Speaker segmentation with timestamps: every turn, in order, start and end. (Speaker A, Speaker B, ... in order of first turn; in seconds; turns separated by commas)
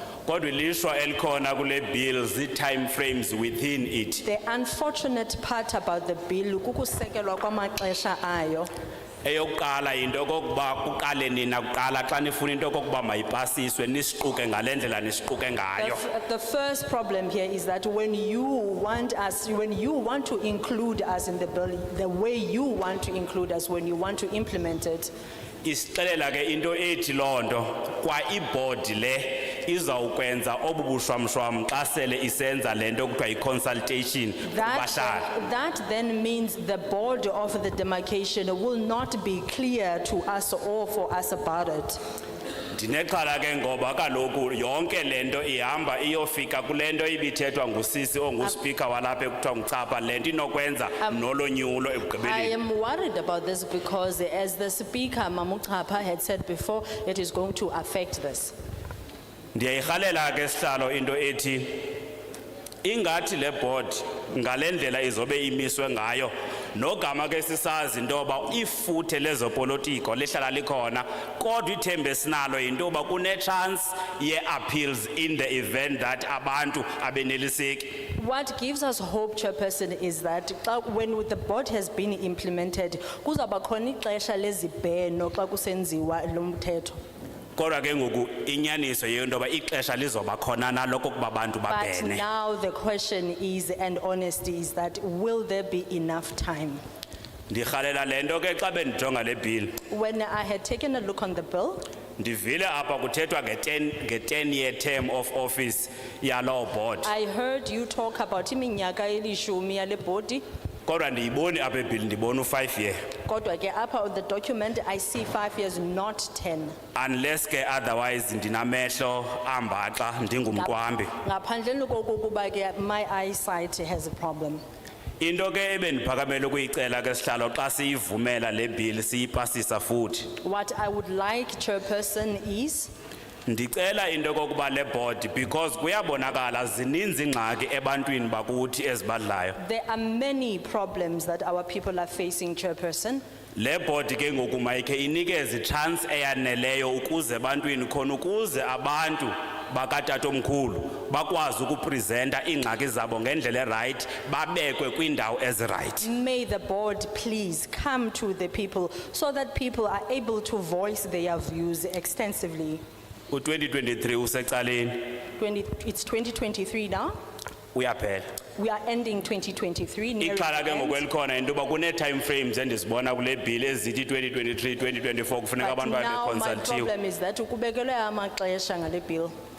Speaker A: 0.2-4.2, Speaker B: 4.2-8.7, Speaker A: 9.2-16.0, Speaker B: 15.8-25.1, Speaker A: 25.6-35.3, Speaker B: 34.5-42.0, Speaker A: 42.7-52.5, Speaker B: 52.2-58.5, Speaker A: 59.5-61.9, Speaker A: 62.8-78.1, Speaker B: 78.1-87.0, Speaker A: 87.6-92.2, Speaker B: 91.7-96.8, Speaker A: 97.5-99.7, Speaker B: 99.9-101.9, Speaker A: 102.2-107.1, Speaker B: 107.0-110.4, Speaker A: 110.9-113.0, Speaker B: 113.2-116.8, Speaker A: 116.9-121.1, Speaker B: 121.2-124.6, Speaker A: 125.2-130.3, Speaker B: 130.4-132.9, Speaker A: 133.4-139.6, Speaker B: 139.6-143.2, Speaker A: 143.6-156.1, Speaker B: 156.0-162.8, Speaker A: 163.3-165.2, Speaker B: 165.4-167.2, Speaker A: 167.7-168.3, Speaker B: 168.6-171.0, Speaker A: 170.2-176.9, Speaker B: 175.6-179.3